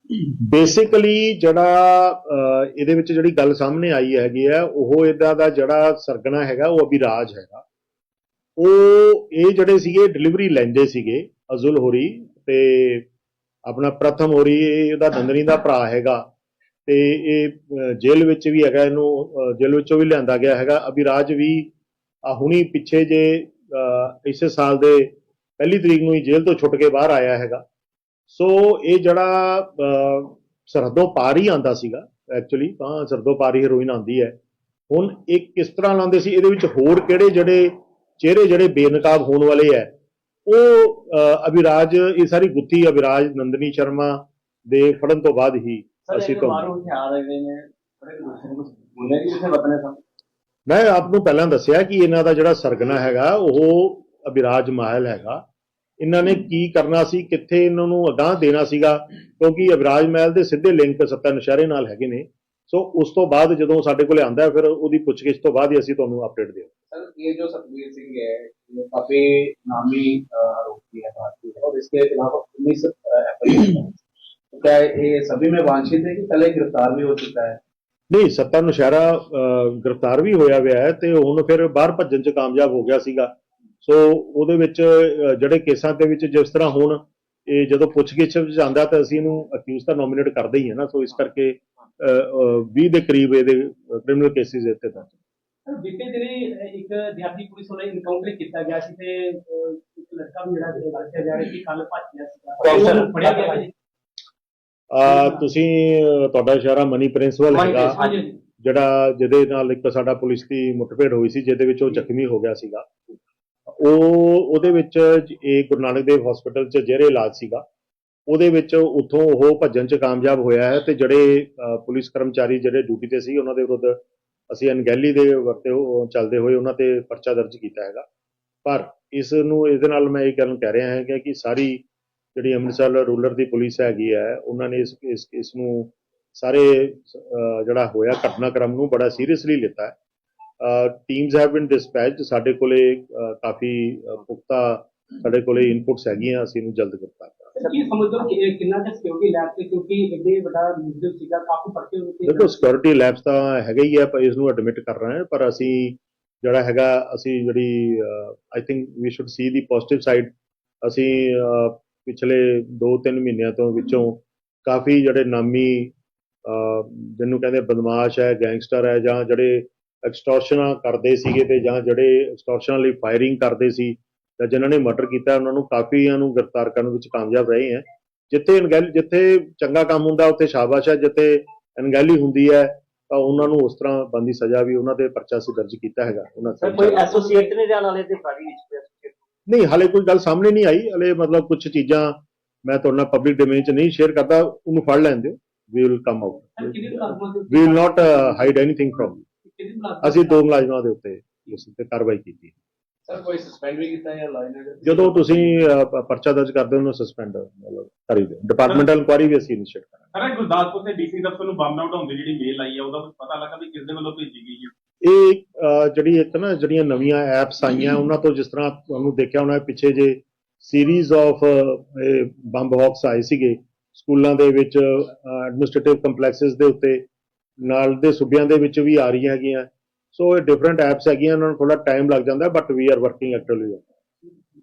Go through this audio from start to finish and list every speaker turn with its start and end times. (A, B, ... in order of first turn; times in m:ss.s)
0:00.4-0:07.6 A
0:08.6-0:13.0 A
0:13.6-0:16.2 A
0:16.8-0:21.7 A
0:22.2-0:27.6 A
0:28.3-0:34.3 A
0:34.9-0:39.9 A
0:40.4-0:46.7 A
0:46.1-0:49.9 B
0:50.7-0:55.4 A
0:56.0-1:06.7 A
1:06.9-1:14.0 C
1:14.5-1:17.6 C
1:18.1-1:35.2 A
1:35.6-1:43.7 D
1:42.6-1:43.6 B
1:44.9-1:48.0 A
1:47.5-1:48.3 B
1:47.8-1:48.4 D
1:48.6-1:53.0 A
1:53.7-1:57.6 A
1:58.3-2:04.0 A
2:04.5-2:08.0 A
2:08.6-2:11.8 A
2:12.3-2:19.9 A
2:20.6-2:27.5 A
2:27.5-2:32.6 D
2:32.2-2:40.3 A
2:40.8-2:45.9 A
2:46.4-3:07.1 A
3:06.6-3:09.2 B
3:07.1-3:07.5 D
3:09.5-3:19.2 A
3:16.6-3:20.4 D
3:20.0-3:22.5 A
3:23.1-3:25.5 C
3:24.8-3:30.0 A
3:30.1-3:34.7 E
3:35.0-3:47.0 A
3:47.6-3:53.8 A